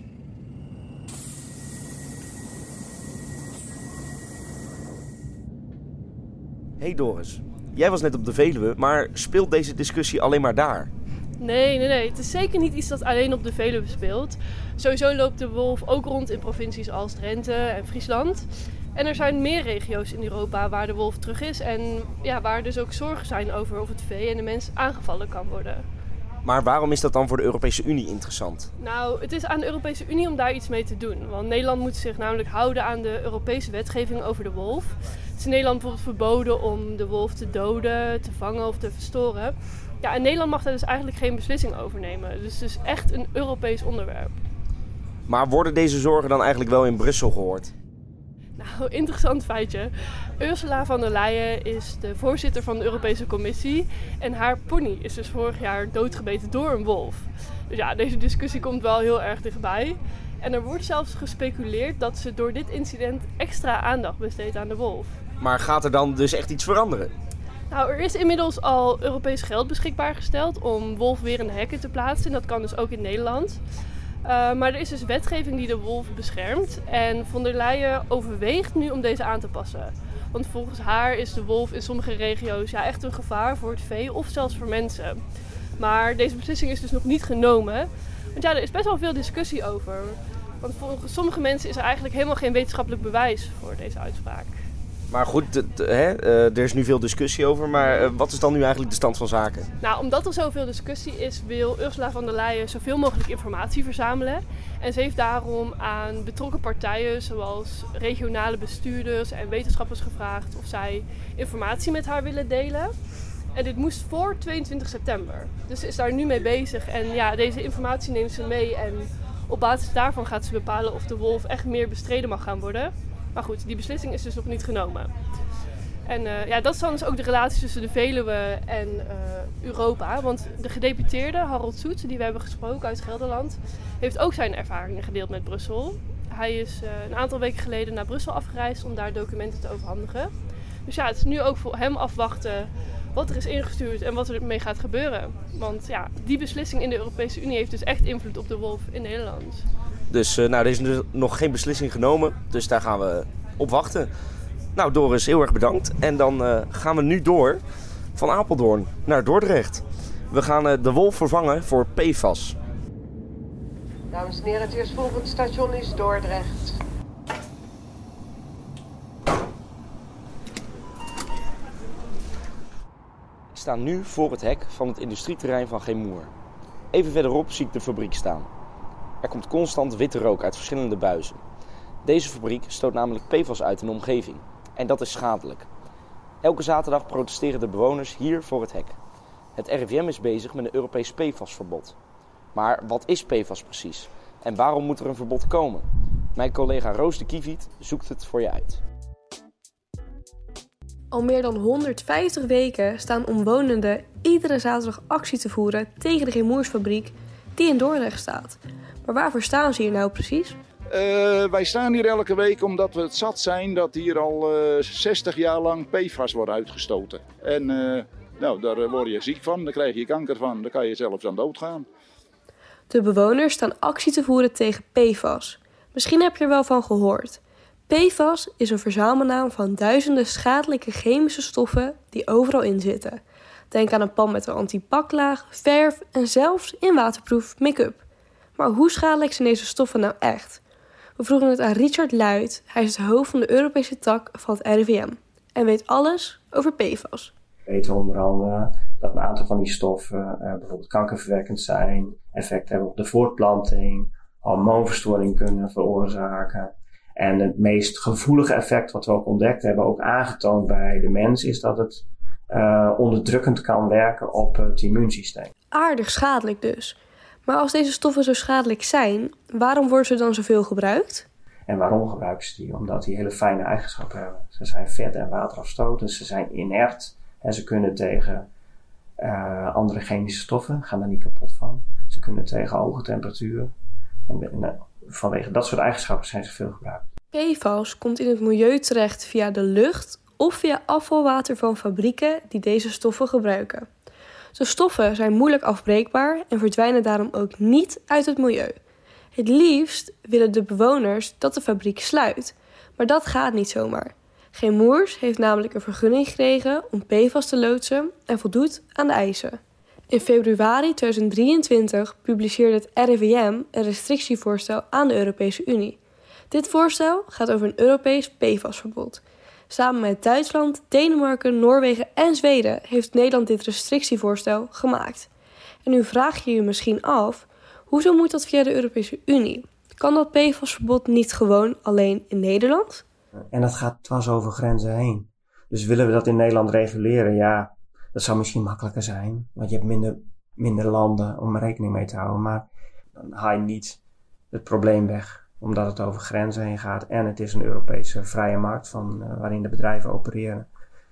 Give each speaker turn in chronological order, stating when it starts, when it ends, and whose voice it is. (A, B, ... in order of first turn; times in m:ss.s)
0:06.8-0:10.9 A
0:11.4-0:25.8 B
0:26.4-0:28.7 A
0:28.8-0:44.3 B
0:45.3-0:47.7 A
0:48.6-1:05.2 B
1:05.4-1:07.1 A
1:07.7-1:13.6 B
1:14.2-1:25.2 B
1:25.8-1:34.6 B
1:35.1-1:39.7 A
1:39.8-1:52.9 B
1:53.5-2:05.1 B
2:06.1-2:20.3 B
2:20.9-2:29.6 B
2:30.1-2:34.1 A
2:34.7-2:37.6 A
2:38.2-2:42.6 A
2:44.1-2:46.7 C
2:53.5-2:56.3 A
2:56.9-2:58.5 A
2:59.2-3:01.4 A
3:02.0-3:05.7 A
3:06.4-3:09.0 A
3:09.5-3:12.0 A
3:12.5-3:18.8 A
3:21.1-3:30.6 D
3:30.9-3:41.9 E
3:42.9-3:58.0 D
3:58.6-4:00.6 D
4:01.2-4:07.3 D
4:07.7-4:25.5 F
4:25.7-4:31.2 D
4:31.7-4:38.5 F
4:39.2-4:43.7 F
4:44.3-4:47.0 F
4:47.3-4:53.9 D
4:54.5-4:58.8 D
4:59.3-5:16.0 D
5:16.5-5:25.3 D
5:25.8-5:33.0 D
5:33.5-5:44.0 F
5:44.5-5:50.7 F